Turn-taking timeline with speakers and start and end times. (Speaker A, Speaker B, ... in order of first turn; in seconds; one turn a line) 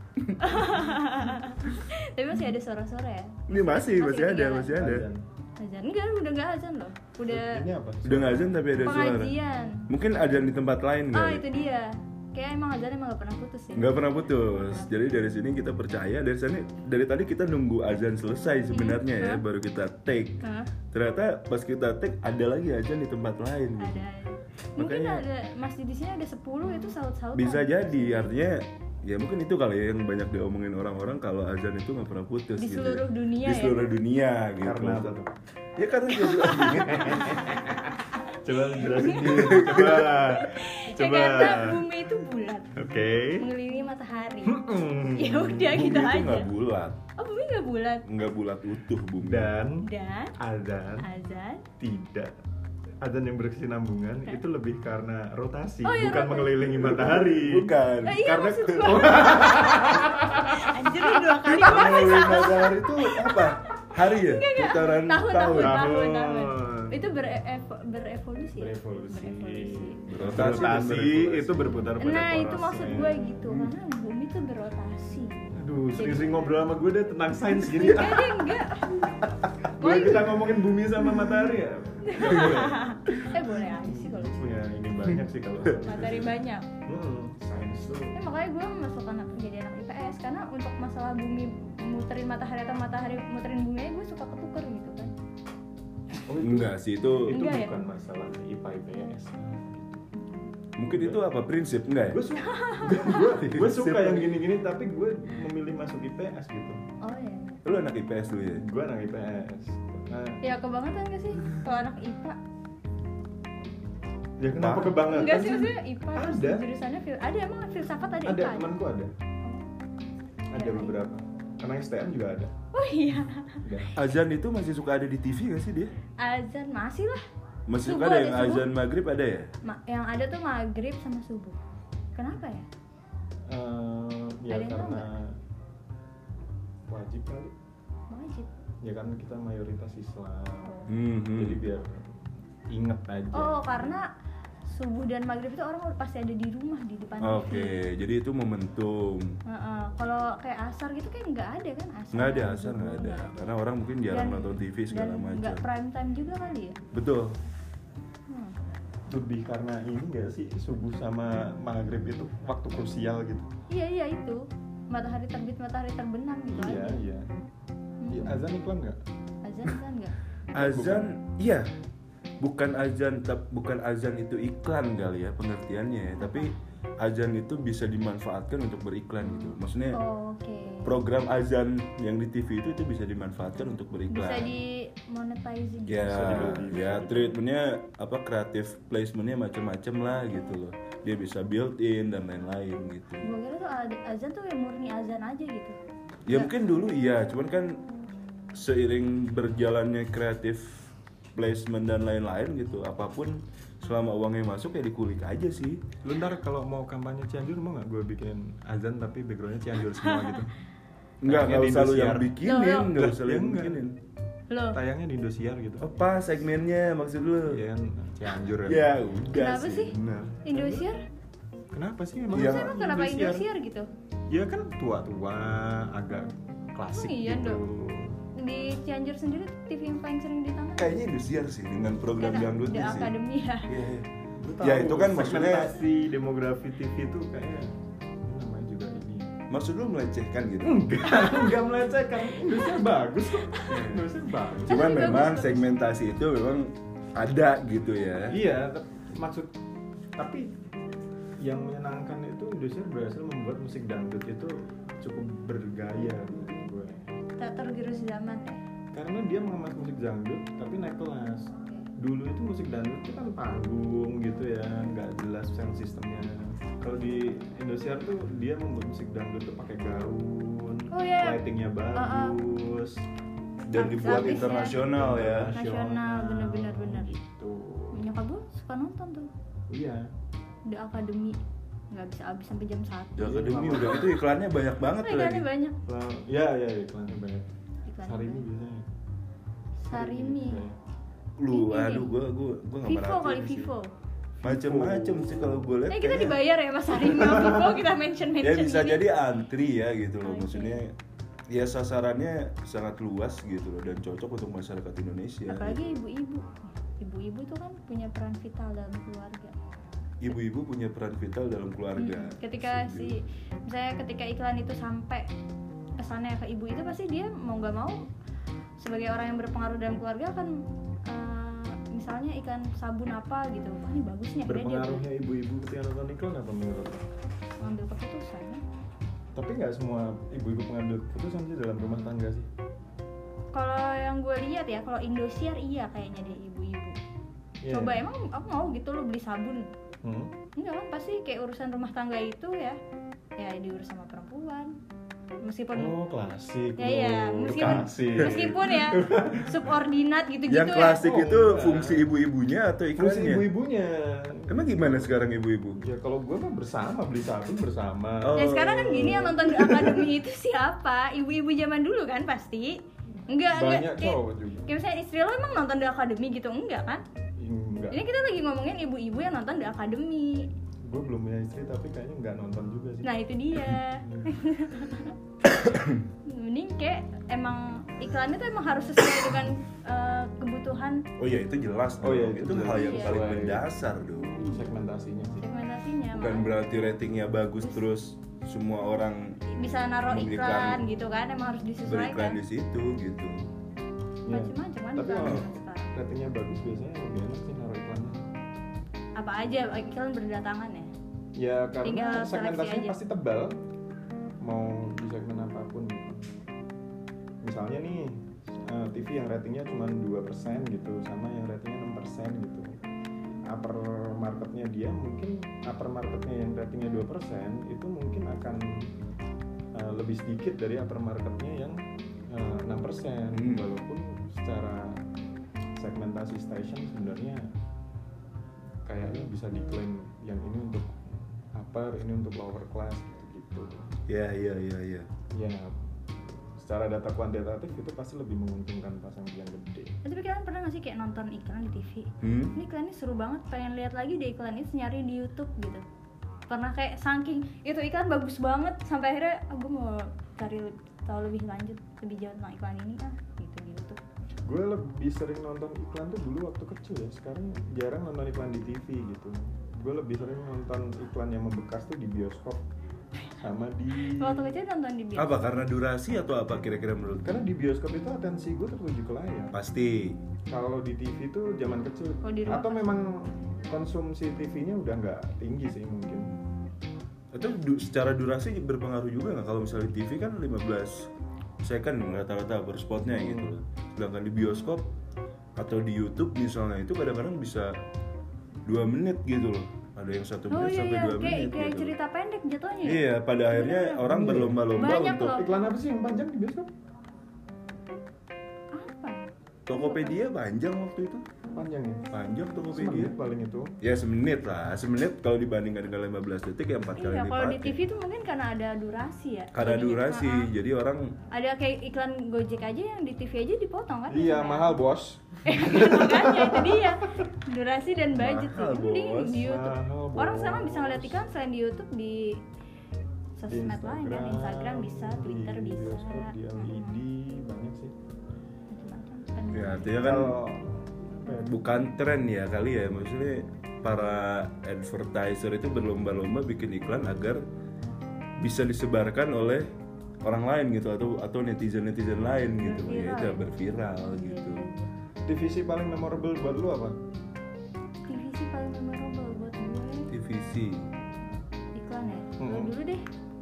Speaker A: 0.4-4.8
Speaker B: 3.5-5.1
Speaker C: 4.7-5.2
Speaker A: 5.6-7.6
Speaker C: 7.3-8.6
Speaker B: 8.0-9.4
Speaker A: 8.8-9.9
Speaker B: 9.9-11.4
Speaker A: 11.1-14.9
Speaker B: 13.7-20.4
Speaker A: 18.7-19.4
Speaker A: 20.4-20.7
Speaker B: 20.9-24.1
Speaker A: 23.8-28.3
Speaker B: 24.8-25.3
Speaker B: 27.3-35.2
Speaker A: 32.6-33.9
Speaker C: 34.6-35.3
Speaker B: 35.8-37.4
Speaker A: 36.3-36.6
Speaker C: 36.6-41.9
Speaker A: 39.0-46.5
Speaker B: 39.0-40.2
Speaker C: 42.8-43.5
Speaker C: 44.5-45.8
Speaker B: 45.6-47.0
Speaker A: 47.2-48.0
Speaker B: 48.1-49.5
Speaker C: 49.2-51.1
Speaker A: 49.8-50.4
Speaker A: 51.0-51.7
Speaker C: 51.8-52.3
Speaker C: 53.0-60.8
Speaker A: 55.9-56.7
Speaker B: 56.9-58.2
Speaker A: 58.0-70.1
Speaker B: 61.4-65.9
Speaker C: 65.5-67.0
Speaker C: 68.5-73.2
Speaker B: 70.1-71.8
Speaker A: 72.0-75.5
Speaker B: 73.5-73.7
Speaker C: 75.5-78.6
Speaker A: 76.0-76.7
Speaker A: 77.5-79.0
Speaker C: 79.6-83.0
Speaker A: 79.8-80.3
Speaker A: 82.0-84.4
Speaker B: 82.2-82.7
Speaker C: 83.8-86.3
Speaker A: 85.8-86.7
Speaker C: 86.9-88.2
Speaker A: 88.1-95.1
Speaker C: 96.2-100.0
Speaker B: 96.4-97.4
Speaker A: 97.3-97.7
Speaker B: 100.8-102.2
Speaker C: 100.8-101.2
Speaker C: 102.1-106.8
Speaker A: 102.5-103.1
Speaker B: 102.9-104.4
Speaker A: 107.0-107.7
Speaker B: 107.6-108.7
Speaker C: 108.6-110.4
Speaker A: 110.4-112.4
Speaker C: 114.4-116.7
Speaker B: 114.5-115.0
Speaker A: 115.1-118.7
Speaker C: 118.2-119.1
Speaker C: 120.5-122.5
Speaker A: 120.5-121.0
Speaker A: 122.7-123.6
Speaker C: 123.6-123.9
Speaker B: 124.0-125.9
Speaker A: 126.2-127.2
Speaker B: 127.7-129.5
Speaker A: 127.8-128.7
Speaker A: 129.6-131.6
Speaker A: 132.2-132.7
Speaker C: 133.5-135.3
Speaker A: 134.5-135.1
Speaker C: 136.9-137.5
Speaker A: 138.1-138.5
Speaker C: 138.8-142.1
Speaker B: 140.9-141.6
Speaker C: 142.7-143.9
Speaker A: 143.3-144.1
Speaker A: 144.7-147.8
Speaker B: 147.2-149.4
Speaker A: 149.5-153.5
Speaker B: 152.1-155.7
Speaker A: 154.1-156.8
Speaker B: 156.9-157.4
Speaker A: 158.3-158.6
Speaker C: 159.1-163.5
Speaker A: 163.7-167.0
Speaker C: 166.5-167.2
Speaker A: 168.0-168.4
Speaker C: 168.1-169.0
Speaker A: 169.4-170.2
Speaker C: 170.5-171.1
Speaker B: 170.5-171.7
Speaker B: 172.4-180.0
Speaker A: 176.2-176.5
Speaker A: 179.9-181.0
Speaker B: 180.8-184.5
Speaker A: 184.1-187.0
Speaker B: 185.9-193.3
Speaker C: 186.0-187.3
Speaker A: 193.2-195.8
Speaker B: 196.3-197.8
Speaker B: 198.5-205.8
Speaker C: 206.0-210.5
Speaker A: 209.9-210.3
Speaker B: 211.2-214.0
Speaker C: 211.2-212.3
Speaker A: 212.4-212.9
Speaker C: 212.9-213.9
Speaker A: 214.5-214.8
Speaker C: 214.7-215.9
Speaker B: 215.8-217.6
Speaker C: 217.5-218.9
Speaker B: 218.6-220.5
Speaker A: 219.3-221.0
Speaker C: 220.5-220.8
Speaker C: 221.7-223.4
Speaker A: 222.3-223.9
Speaker B: 222.3-222.7
Speaker C: 224.3-228.2
Speaker A: 226.9-227.6
Speaker A: 228.3-231.0
Speaker B: 230.8-233.2
Speaker A: 232.2-233.7
Speaker B: 233.7-235.8
Speaker C: 234.4-237.7
Speaker C: 238.2-239.3
Speaker B: 239.5-240.9
Speaker C: 240.6-245.0
Speaker B: 243.7-244.1
Speaker B: 244.6-248.4
Speaker A: 244.7-245.7
Speaker C: 248.3-249.5
Speaker C: 250.2-250.5
Speaker C: 251.4-257.1
Speaker A: 257.4-258.6
Speaker C: 258.9-273.0
Speaker A: 270.9-271.4
Speaker A: 271.9-272.4
Speaker B: 273.7-275.5
Speaker A: 273.8-274.9
Speaker C: 274.7-278.1
Speaker A: 275.6-277.1
Speaker A: 277.9-279.3
Speaker C: 279.7-280.1
Speaker A: 280.7-281.4
Speaker A: 281.9-283.5
Speaker B: 283.2-285.5
Speaker C: 283.2-284.2
Speaker A: 285.0-285.8
Speaker C: 285.9-287.5
Speaker A: 287.9-288.5
Speaker C: 288.1-288.9
Speaker A: 289.8-290.6
Speaker C: 289.9-290.8
Speaker B: 291.4-293.7
Speaker A: 291.5-292.1
Speaker A: 292.9-293.9
Speaker B: 294.4-296.4
Speaker C: 294.4-295.7
Speaker A: 295.9-299.0
Speaker C: 297.3-297.6
Speaker B: 298.4-300.9
Speaker A: 300.2-300.8
Speaker B: 301.5-305.8
Speaker A: 305.5-309.6
Speaker B: 310.2-313.2
Speaker A: 312.0-315.3
Speaker A: 316.0-318.0
Speaker A: 318.8-325.1
Speaker C: 324.4-327.0
Speaker A: 327.6-328.6
Speaker C: 329.4-332.5
Speaker A: 333.5-337.0
Speaker C: 337.6-338.0
Speaker A: 337.7-339.7
Speaker C: 340.0-340.3
Speaker A: 340.6-342.8
Speaker A: 343.4-344.8
Speaker A: 345.4-345.9
Speaker C: 345.8-349.6
Speaker A: 346.8-351.0
Speaker B: 348.2-348.5
Speaker B: 350.5-353.5
Speaker C: 351.0-352.1
Speaker C: 353.0-355.2
Speaker B: 354.5-355.8
Speaker C: 355.8-360.1
Speaker B: 358.2-359.3
Speaker A: 358.4-367.0
Speaker C: 363.5-364.7
Speaker C: 367.4-368.0
Speaker A: 367.9-370.5
Speaker C: 370.9-373.1
Speaker A: 373.0-375.2
Speaker C: 374.0-374.4
Speaker B: 375.5-376.0
Speaker A: 376.2-381.1
Speaker B: 381.2-384.5
Speaker C: 382.0-383.7
Speaker A: 382.7-383.2
Speaker C: 384.2-385.5
Speaker A: 384.4-384.6
Speaker A: 385.3-386.6
Speaker B: 386.1-389.4
Speaker A: 389.5-392.4
Speaker B: 390.1-390.8
Speaker B: 391.9-393.4
Speaker C: 394.3-398.3
Speaker A: 394.3-395.9
Speaker A: 399.2-400.9
Speaker C: 401.4-403.6
Speaker A: 401.8-403.0
Speaker C: 404.4-406.3
Speaker C: 407.4-412.8
Speaker C: 413.5-418.9
Speaker C: 419.8-425.1
Speaker B: 423.3-423.7
Speaker C: 425.8-427.5
Speaker C: 428.9-433.9
Speaker B: 434.1-435.1
Speaker C: 435.3-440.0
Speaker A: 440.0-445.8
Speaker B: 442.2-442.6
Speaker A: 446.5-454.0
Speaker C: 454.5-462.6
Speaker C: 463.4-464.6
Speaker A: 464.1-465.4
Speaker B: 465.2-467.5
Speaker C: 467.2-469.6
Speaker B: 469.5-470.2
Speaker C: 470.5-476.3
Speaker A: 472.2-472.9
Speaker B: 477.3-481.1
Speaker B: 481.6-484.9
Speaker B: 485.6-487.8
Speaker B: 488.6-491.9
Speaker A: 490.5-495.5
Speaker B: 492.8-495.4
Speaker C: 494.1-494.6
Speaker C: 495.4-496.7
Speaker A: 498.8-500.2
Speaker B: 499.7-501.3
Speaker C: 501.5-502.1
Speaker B: 502.1-503.1
Speaker C: 502.7-503.7
Speaker B: 503.8-507.8
Speaker A: 507.0-510.5
Speaker B: 509.5-511.1
Speaker A: 511.3-514.8
Speaker C: 514.1-517.3
Speaker A: 515.4-522.4
Speaker B: 518.1-519.5
Speaker C: 519.4-521.2
Speaker A: 523.4-527.0
Speaker C: 523.5-527.9
Speaker A: 528.7-529.9
Speaker B: 529.5-530.4
Speaker C: 530.0-531.5
Speaker B: 531.5-537.4
Speaker B: 538.4-539.7
Speaker B: 540.2-544.7
Speaker A: 542.6-543.4
Speaker A: 544.1-544.9
Speaker C: 545.3-547.0
Speaker A: 548.1-550.1
Speaker B: 550.1-550.9
Speaker A: 551.8-553.0
Speaker C: 552.4-552.7